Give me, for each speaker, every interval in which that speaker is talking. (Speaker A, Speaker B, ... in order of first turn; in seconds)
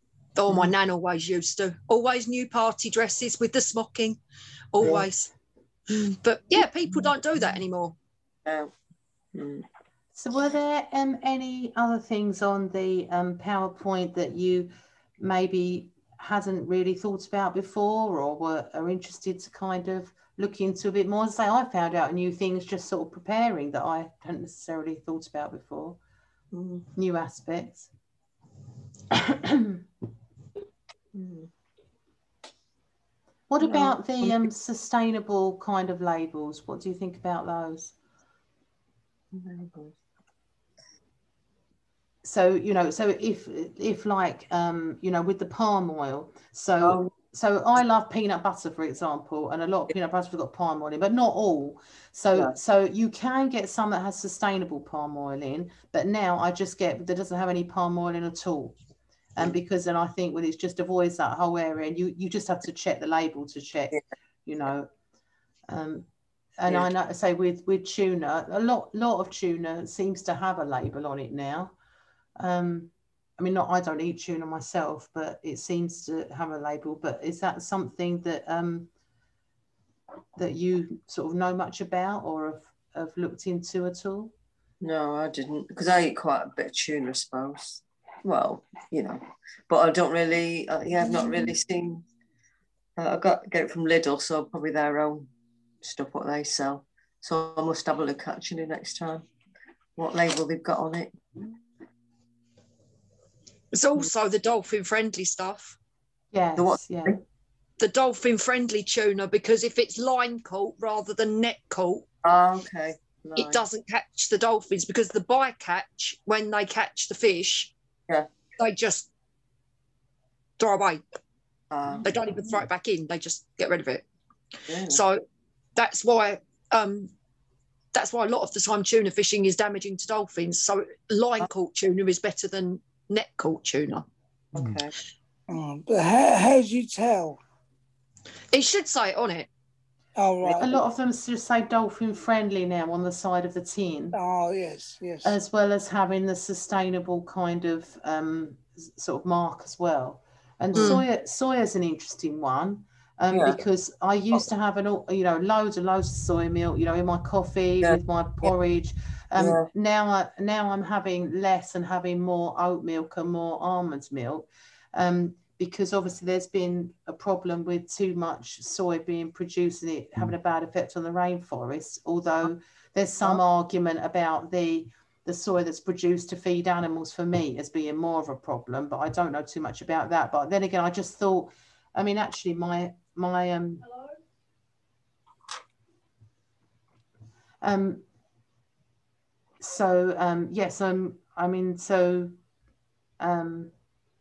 Speaker A: 0.3-4.2, 4.7-5.3, 5.9-7.9, 103.7-105.8, 107.8-112.0, 113.4-117.7, 118.6-119.1, 120.6-121.0, 122.0-124.0, 124.9-125.2, 125.8-127.1, 127.9-134.0, 138.5-139.5, 150.7-151.0
Speaker B: 8.4-8.7, 9.3-9.6, 26.5-26.9, 31.1-31.5, 33.6-34.3, 39.3-39.9, 46.8-47.1, 84.8-92.0, 93.0-95.3, 95.8-99.2, 100.0-101.2, 106.6-107.2, 112.2-113.6, 121.7-122.1, 124.7-125.0, 134.5-134.9, 150.7-151.0, 153.3-153.6, 157.8-158.5, 159.4-159.7
Speaker C: 10.2-26.0, 26.9-27.9, 29.1-29.8, 33.5-37.9, 42.2-58.8, 59.4-64.9, 65.7-71.7, 72.4-78.9, 80.4-84.3, 106.3-107.2, 140.4-144.2, 145.2-183.9, 187.6-188.0, 189.6-192.3, 193.2-193.7
Speaker D: 135.5-137.4, 140.2-140.8, 144.1-145.3